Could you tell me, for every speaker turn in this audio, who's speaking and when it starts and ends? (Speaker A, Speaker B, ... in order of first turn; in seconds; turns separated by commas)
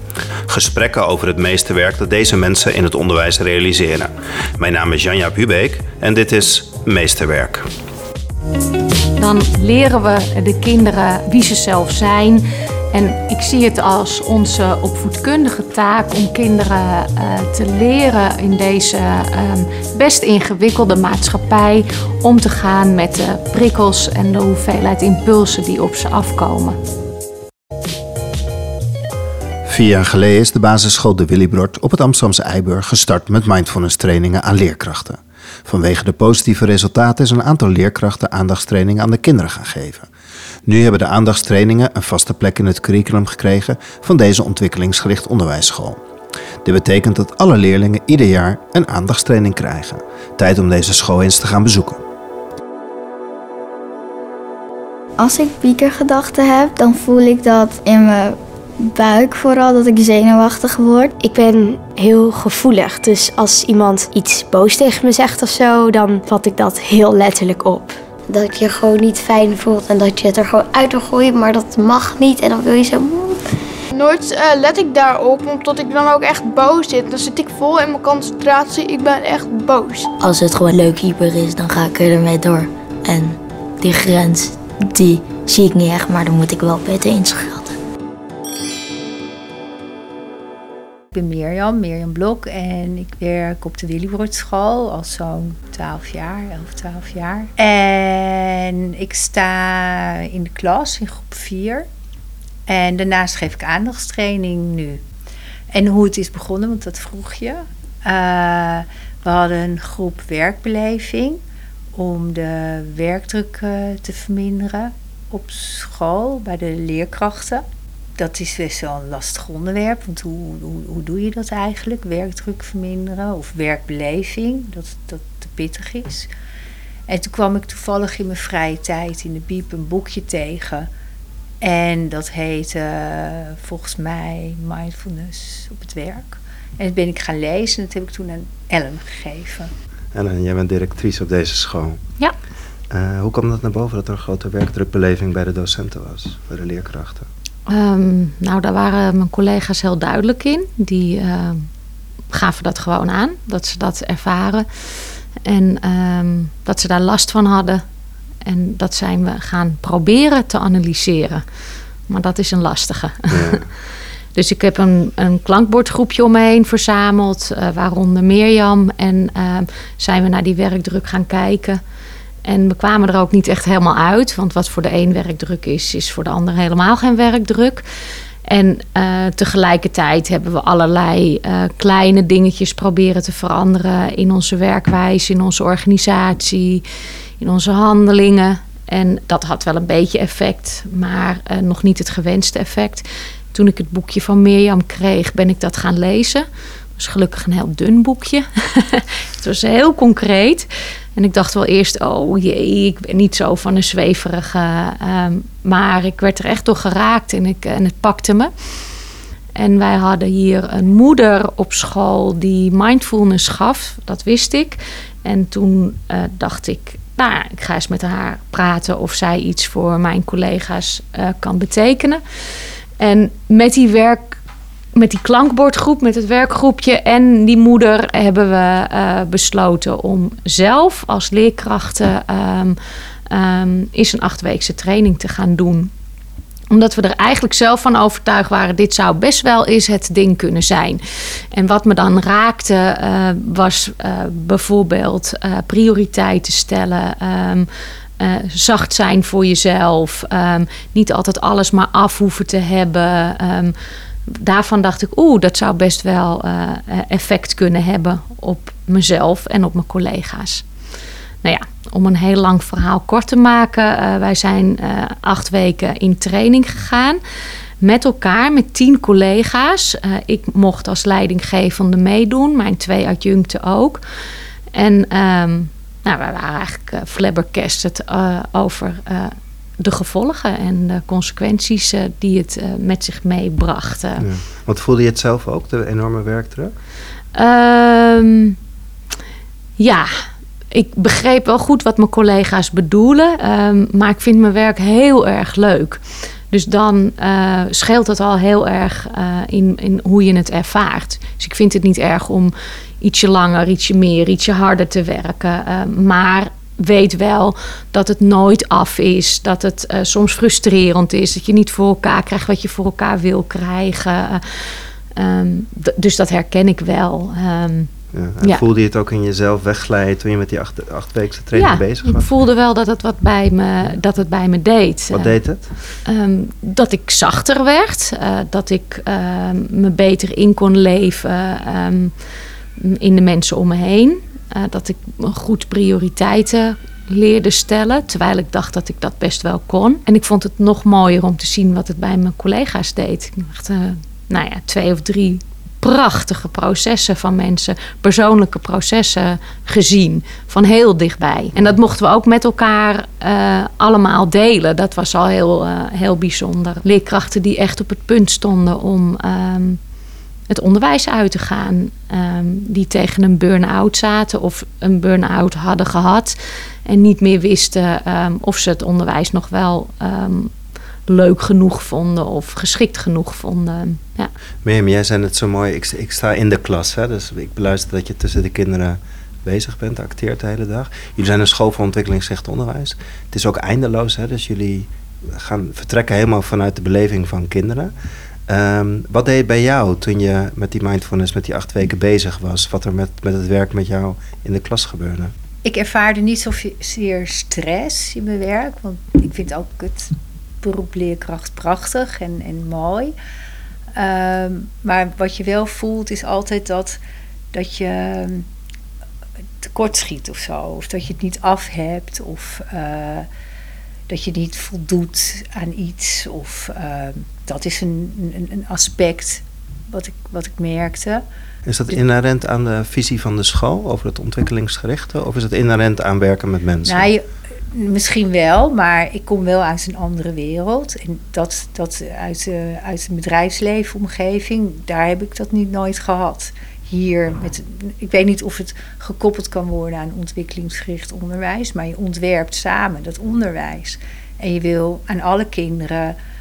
Speaker A: 0.5-7.7, Speaker B: 9.2-26.8, Speaker A: 29.6-40.1, Speaker A: 40.6-46.0, Speaker A: 46.6-52.0, Speaker C: 55.2-61.1, Speaker D: 61.2-68.0, Speaker E: 68.3-73.3, Speaker F: 73.9-80.1, Speaker G: 80.2-87.7, Speaker H: 91.1-101.9, Speaker H: 102.7-105.0, Speaker H: 105.7-111.4, Speaker H: 111.9-117.6, Speaker H: 118.2-126.3, Speaker H: 127.1-130.9, Speaker H: 131.6-139.7, Speaker A: 140.1-142.0, Speaker A: 142.9-147.3, Speaker B: 147.7-151.7, Speaker B: 152.3-154.7, Speaker B: 155.4-157.8, Speaker B: 158.4-161.4, Speaker B: 162.1-163.6, Speaker A: 163.3-163.7, Speaker B: 164.3-171.8, Speaker B: 172.4-177.8, Speaker B: 178.4-186.8, Speaker B: 187.4-196.4, Speaker B: 197.0-208.5, Speaker B: 209.6-222.2, Speaker B: 223.0-224.4, Speaker B: 224.9-232.8, Speaker B: 233.3-235.9, Speaker B: 236.7-241.0, Speaker B: 241.5-247.7, Speaker B: 248.2-253.7, Speaker B: 254.3-260.6, Speaker B: 261.4-267.2, Speaker B: 267.8-274.0, Speaker B: 274.7-284.2, Speaker A: 284.2-286.7, Speaker B: 287.3-288.6, Speaker B: 289.8-317.9, Speaker A: 318.1-322.3, Speaker B: 321.5-325.4, Speaker A: 325.1-325.7, Speaker B: 326.0-332.1, Speaker B: 332.8-359.8, Speaker B: 360.5-370.5, Speaker B: 371.1-374.3, Speaker A: 374.6-387.9, Speaker A: 388.5-395.3, Speaker H: 395.6-403.1, Speaker H: 403.9-407.0, Speaker H: 407.5-408.4, Speaker H: 409.6-413.3, Speaker H: 414.1-421.2, Speaker A: 421.7-427.1, Speaker H: 426.9-446.2